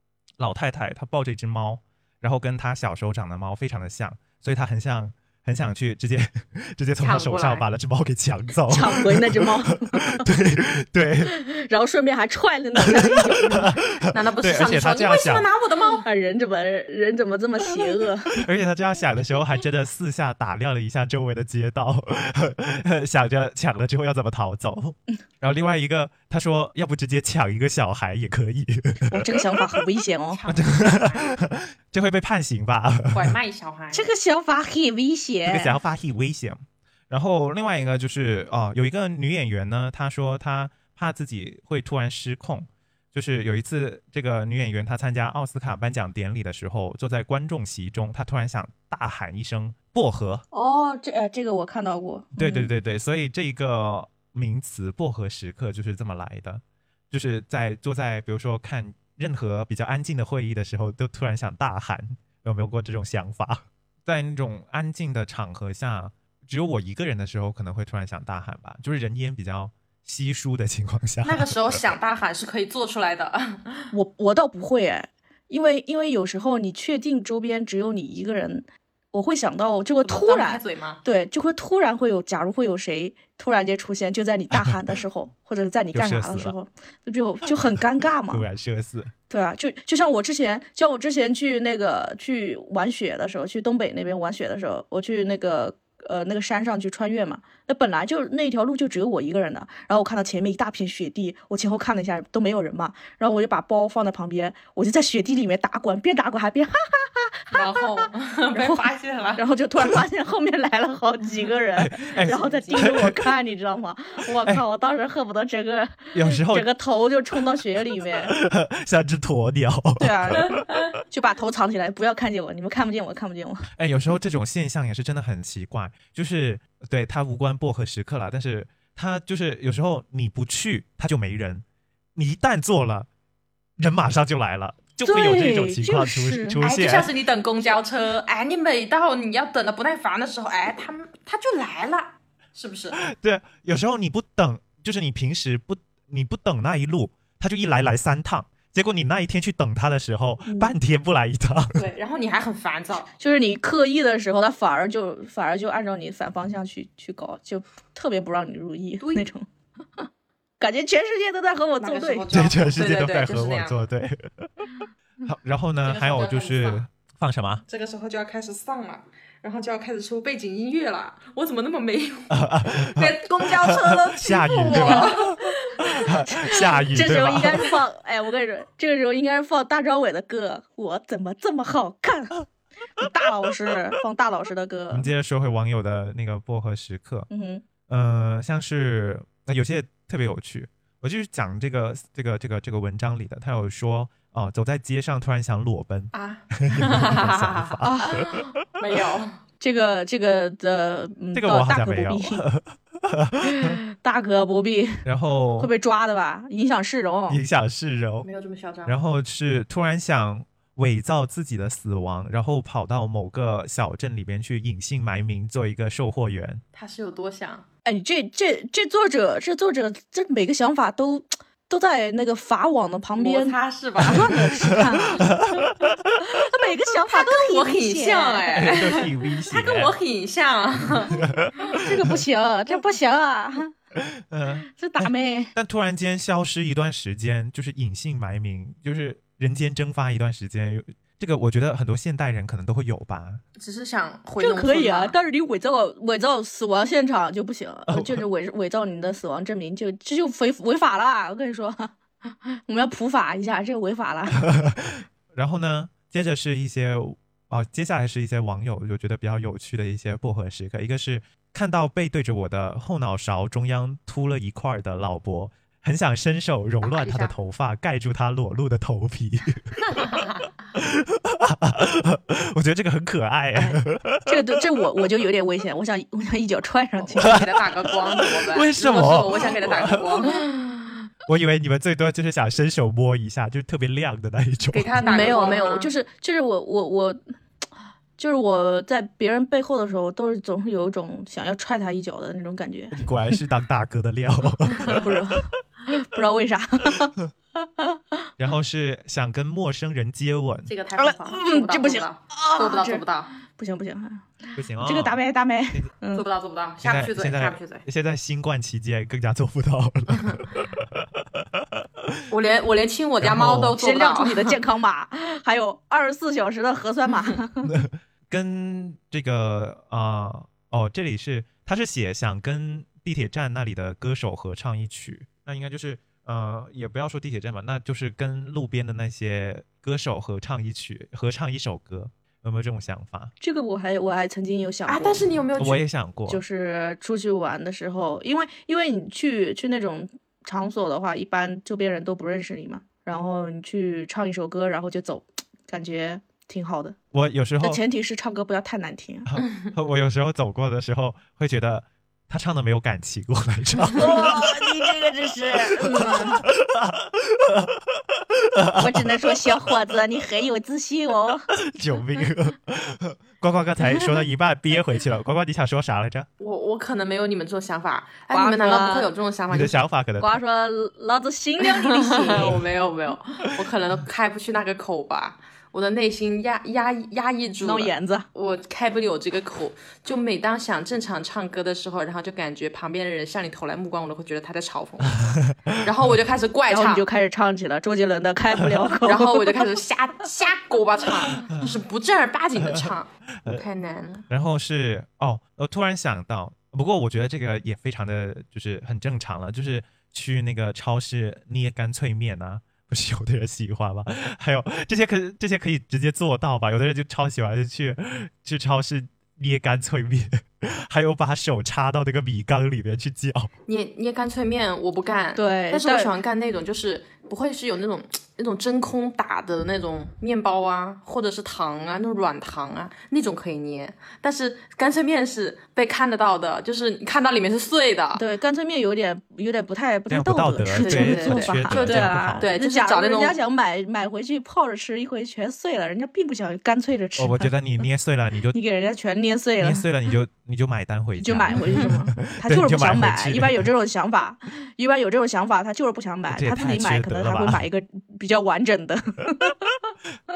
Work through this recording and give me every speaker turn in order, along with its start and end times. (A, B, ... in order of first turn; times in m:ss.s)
0:00.4-0:11.3 A
0:07.0-0:07.6 B
0:08.7-0:10.3 C
0:11.2-0:13.8 C
0:12.8-0:15.5 A
0:14.1-0:16.0 B
0:16.0-0:18.4 C
0:18.4-0:29.6 A
0:29.1-0:30.4 C
0:30.3-0:31.4 B
0:30.5-0:33.3 A
0:33.1-0:34.1 B
0:33.9-0:35.8 C
0:35.4-0:50.4 A
0:50.5-0:52.7 C
0:52.4-1:11.8 A
1:11.2-1:13.9 B
1:13.9-1:28.4 C
1:20.0-1:21.0 B
1:24.5-1:24.9 A
1:25.9-1:26.5 A
1:28.3-1:29.1 A
1:29.3-1:58.3 C
1:47.5-1:49.4 B
1:51.8-1:53.3 A
1:52.2-1:52.9 B
1:56.1-1:56.7 A
1:58.0-2:00.8 A
2:00.0-2:03.7 C
2:03.8-2:11.6 A
2:12.2-2:13.1 A
2:13.8-2:17.1 A
2:15.0-2:16.6 C
2:16.6-2:23.0 B
2:23.0-2:31.8 A
2:30.4-2:30.7 C
2:31.8-2:33.1 B
2:33.2-2:39.4 C
2:40.6-2:42.5 C
2:41.8-2:43.8 B
2:42.3-2:44.7 A
2:45.2-2:47.6 A
2:45.8-2:46.8 B
2:47.7-2:57.7 B
2:52.3-2:57.7 A
2:54.8-2:55.1 C
2:56.2-3:02.4 C
3:03.0-3:05.1 C
3:04.9-3:07.3 A
3:07.3-3:07.6 C
3:07.9-3:18.4 A
3:16.1-3:19.4 B
3:17.8-3:18.3 C
3:19.6-3:22.4 C
3:21.3-3:23.8 A
3:23.4-3:25.0 C
3:25.0-3:25.7 A
3:25.6-3:27.4 C
3:27.3-3:28.3 A
3:28.2-3:29.0 B
3:28.8-3:36.6 A
3:36.7-3:37.6 B
3:37.8-3:45.3 C
3:43.2-3:44.5 B
3:44.0-3:45.9 A
3:46.2-3:48.5 C
3:47.1-3:51.2 B
3:48.5-3:50.0 A
3:51.1-3:51.5 A
3:51.6-3:53.7 C
3:54.2-4:03.4 A
3:54.7-3:55.5 C
4:03.6-4:05.2 B
4:04.4-4:11.9 C
4:07.9-4:08.2 A
4:12.7-4:14.4 C
4:14.5-4:34.6 A
4:26.8-4:27.4 B
4:30.1-4:30.4 B
4:33.5-4:37.5 C
4:37.0-4:40.5 B
4:37.2-4:40.2 A
4:41.3-4:45.2 A
4:44.7-4:45.9 B
4:45.0-4:47.2 C
4:48.2-4:53.4 C
4:52.9-4:55.4 A
4:54.8-4:58.3 C
4:58.4-5:00.7 A
5:00.7-5:03.3 B
5:01.0-5:06.2 C
5:04.6-5:05.2 A
5:06.1-5:07.8 B
5:06.8-5:12.2 A
5:12.3-5:14.6 B
5:13.2-5:13.8 A
5:13.8-5:17.7 C
5:17.6-5:33.3 A
5:33.4-5:35.3 C
5:34.9-5:35.8 B
5:35.6-5:36.4 A
5:36.3-5:47.0 C
5:47.1-5:47.8 A
5:47.6-5:49.3 C
5:49.3-5:54.8 A
5:53.9-5:56.4 C
5:55.7-5:59.7 A
5:55.8-5:56.4 B
5:58.8-6:01.5 C
6:01.7-6:06.3 A
6:03.9-6:04.2 B
6:06.4-6:09.8 B
6:08.3-6:09.1 C
6:09.5-6:10.4 A
6:10.2-6:12.6 C
6:11.6-6:27.0 B
6:12.3-6:12.7 A
6:17.6-6:18.3 C
6:25.0-6:26.2 A
6:26.7-6:29.7 C
6:28.5-6:28.9 A
6:29.0-6:34.2 B
6:31.4-6:31.8 A
6:32.6-6:32.9 A
6:34.3-6:53.5 A
6:53.7-7:08.2 B
6:55.4-6:56.1 C
7:08.2-7:17.5 C
7:10.1-7:12.5 A
7:10.7-7:13.4 B
7:17.2-7:18.6 A
7:18.5-7:19.8 C
7:19.6-7:23.7 A
7:21.2-7:29.7 C
7:26.3-7:27.6 A